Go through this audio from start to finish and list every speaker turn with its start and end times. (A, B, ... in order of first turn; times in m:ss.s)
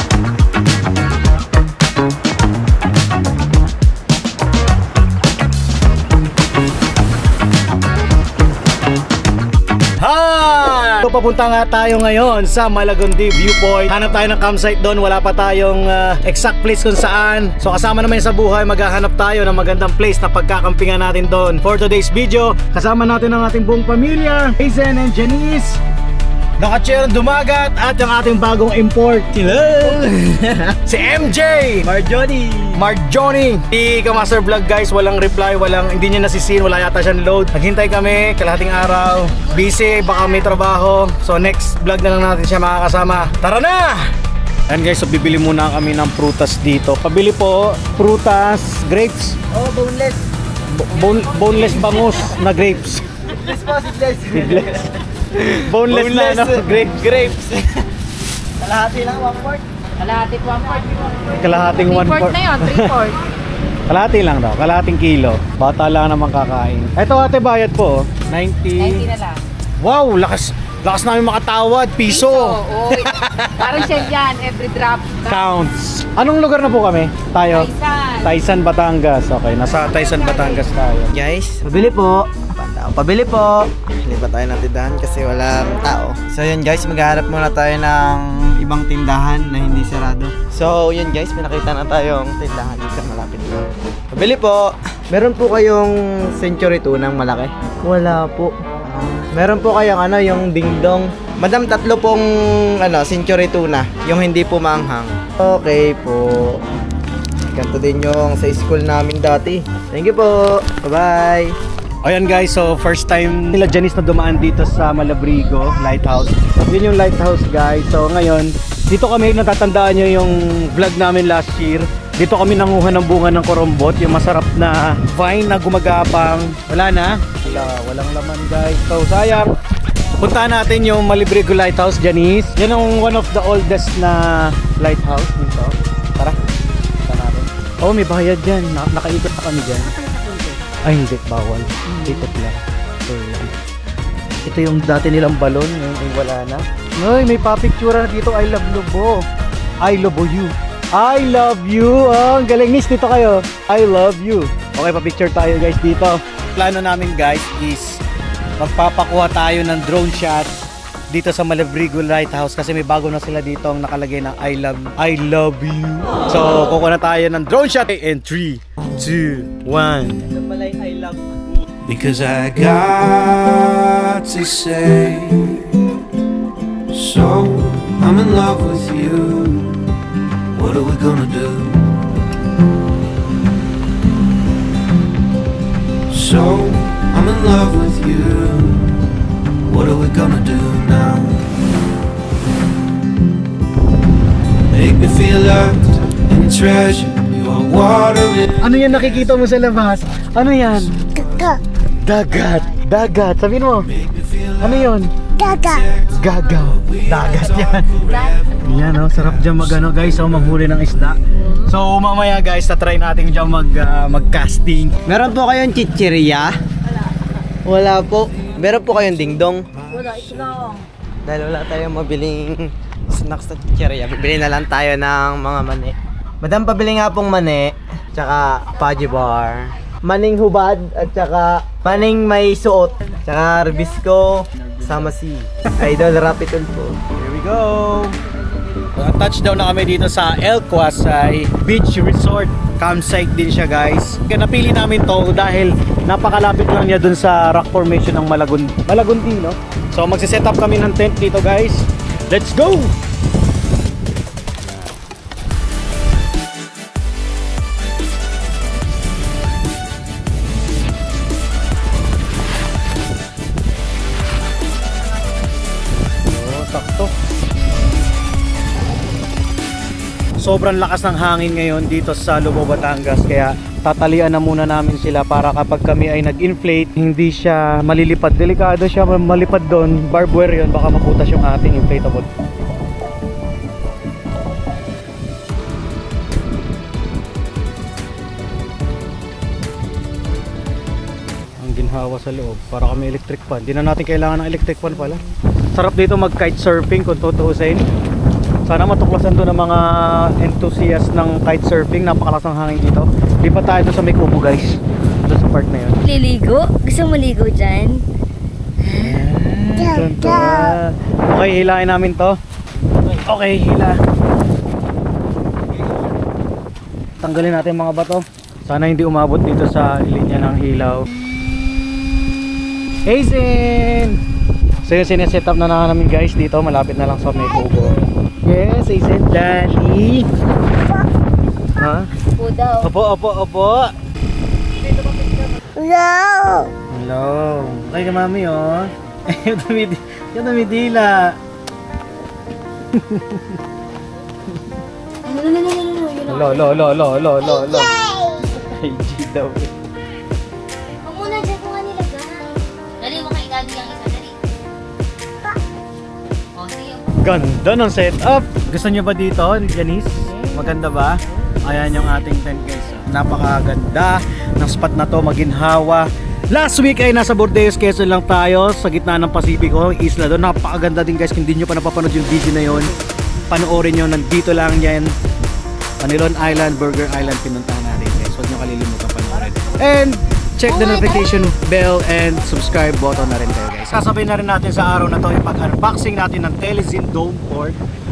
0:10.0-0:25.8 A
0:26.6-0:30.0 A
0:29.6-0:30.8 B
0:30.8-0:31.9 A
0:31.8-0:32.7 B
0:32.7-0:44.0 A
0:39.3-0:40.5 C
0:44.7-0:49.4 A
0:49.5-0:50.3 B
0:50.7-0:53.1 A
0:53.3-0:57.8 B
0:54.3-0:54.8 A
0:55.7-0:56.9 A
0:58.6-0:59.6 B
1:00.0-1:03.2 D
1:01.2-1:03.1 A
1:03.9-1:09.1 A
1:08.8-1:09.4 D
1:09.8-1:13.6 A
1:12.2-1:15.3 D
1:15.2-1:21.1 A
1:17.6-1:18.3 D
1:19.9-1:20.5 D
1:21.1-1:46.6 B
1:21.8-1:22.2 A
1:47.5-1:51.6 B
1:52.0-2:09.6 A
2:10.2-2:16.4 A
2:17.1-2:19.9 A
2:20.1-2:20.4 C
2:20.8-2:23.5 A
2:24.4-2:29.2 A
2:29.8-2:38.0 A
2:38.6-2:40.5 A
2:41.1-2:50.3 A
2:50.2-2:51.4 B
2:51.8-2:55.7 E
2:56.9-2:59.8 E
3:00.5-3:02.0 E
3:06.1-3:08.9 E
3:09.6-3:11.4 E
3:14.7-3:18.7 E
3:18.6-3:21.2 A
3:21.9-3:23.9 A
3:24.5-3:25.1 A
3:26.0-3:28.0 A
3:27.9-3:28.5 E
3:28.1-3:28.4 C
3:28.6-3:35.0 A
3:35.1-3:36.5 B
3:37.6-3:40.7 B
3:41.2-3:57.0 B
3:54.6-3:55.1 A
3:57.1-3:58.2 A
3:58.9-4:12.9 A
4:26.3-4:27.1 A
4:30.4-4:42.3 A
4:51.6-4:55.2 A
4:55.7-4:57.8 A
4:58.7-5:06.0 A
5:06.0-5:08.0 C
5:08.9-5:12.4 A
5:13.1-5:14.0 A
5:17.2-5:21.0 A
5:23.1-5:24.2 A
5:24.8-5:30.3 A
5:31.8-5:32.1 A
5:32.4-5:32.9 C
5:32.8-5:33.9 A
5:35.8-5:36.7 C
5:36.9-5:41.4 A
5:42.9-5:43.6 A
5:45.2-5:46.7 C
5:46.3-5:47.9 A
5:47.8-5:48.5 C
5:48.6-5:49.7 A
5:51.0-5:54.4 C
5:56.6-5:57.1 C
5:57.2-6:13.0 A
6:00.3-6:00.7 C
6:13.5-6:15.1 A
6:16.0-6:27.8 A